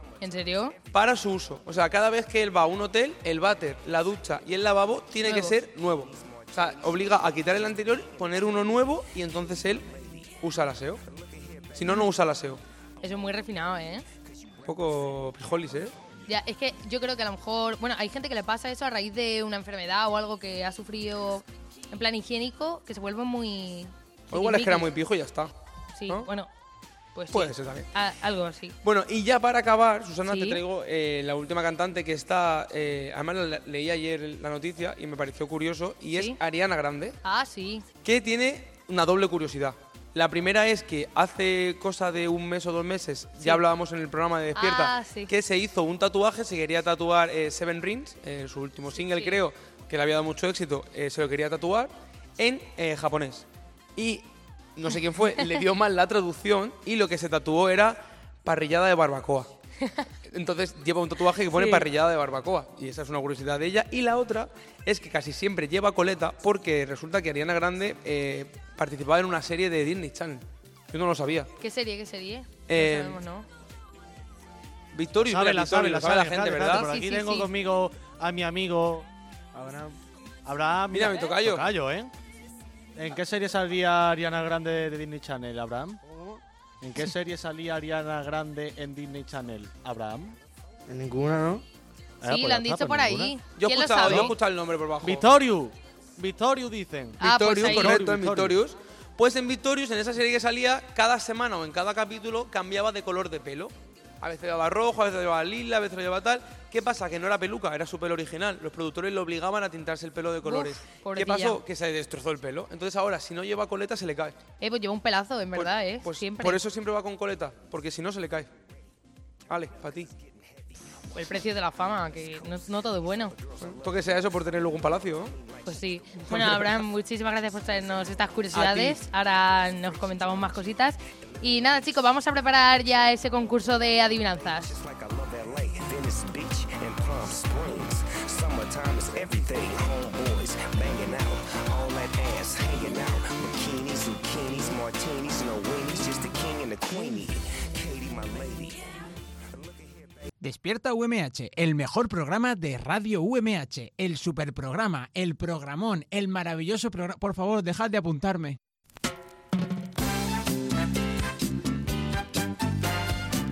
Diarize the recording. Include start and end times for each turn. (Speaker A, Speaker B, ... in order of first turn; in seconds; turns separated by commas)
Speaker A: 0.2-0.8, Speaker B: 0.9-9.9, Speaker A: 5.2-5.5, Speaker C: 6.3-6.9, Speaker C: 9.8-10.3, Speaker B: 10.4-11.0, Speaker C: 11.1-11.8, Speaker B: 11.7-12.6, Speaker A: 13.0-14.0, Speaker B: 14.6-15.9, Speaker A: 16.3-24.9, Speaker B: 24.3-25.5, Speaker A: 25.9-26.5, Speaker A: 27.1-28.8, Speaker B: 27.3-27.9, Speaker B: 28.8-37.2, Speaker A: 30.2-30.6, Speaker A: 37.2-37.8, Speaker B: 38.0-53.4, Speaker A: 44.5-45.3, Speaker A: 49.0-49.4, Speaker B: 54.0-59.5, Speaker B: 60.3-71.5, Speaker A: 61.5-61.8, Speaker A: 71.6-73.5, Speaker B: 72.7-73.2, Speaker B: 74.9-76.9, Speaker D: 75.2-79.7, Speaker A: 76.7-77.5, Speaker D: 80.5-82.1, Speaker B: 80.9-81.7, Speaker D: 83.0-86.2, Speaker D: 86.8-90.3, Speaker D: 92.2-93.3, Speaker A: 92.2-94.3, Speaker B: 93.6-95.2, Speaker D: 94.0-94.3, Speaker D: 95.0-98.6, Speaker A: 97.2-98.0, Speaker B: 97.2-114.3, Speaker A: 110.4-111.6, Speaker A: 114.6-116.6, Speaker B: 115.5-118.5, Speaker B: 119.5-120.1, Speaker A: 121.1-123.3, Speaker C: 123.4-123.8, Speaker B: 123.6-125.3, Speaker A: 125.6-134.8, Speaker B: 126.3-126.8, Speaker B: 128.5-129.0, Speaker C: 134.6-148.9, Speaker C: 149.5-150.1, Speaker E: 150.4-158.6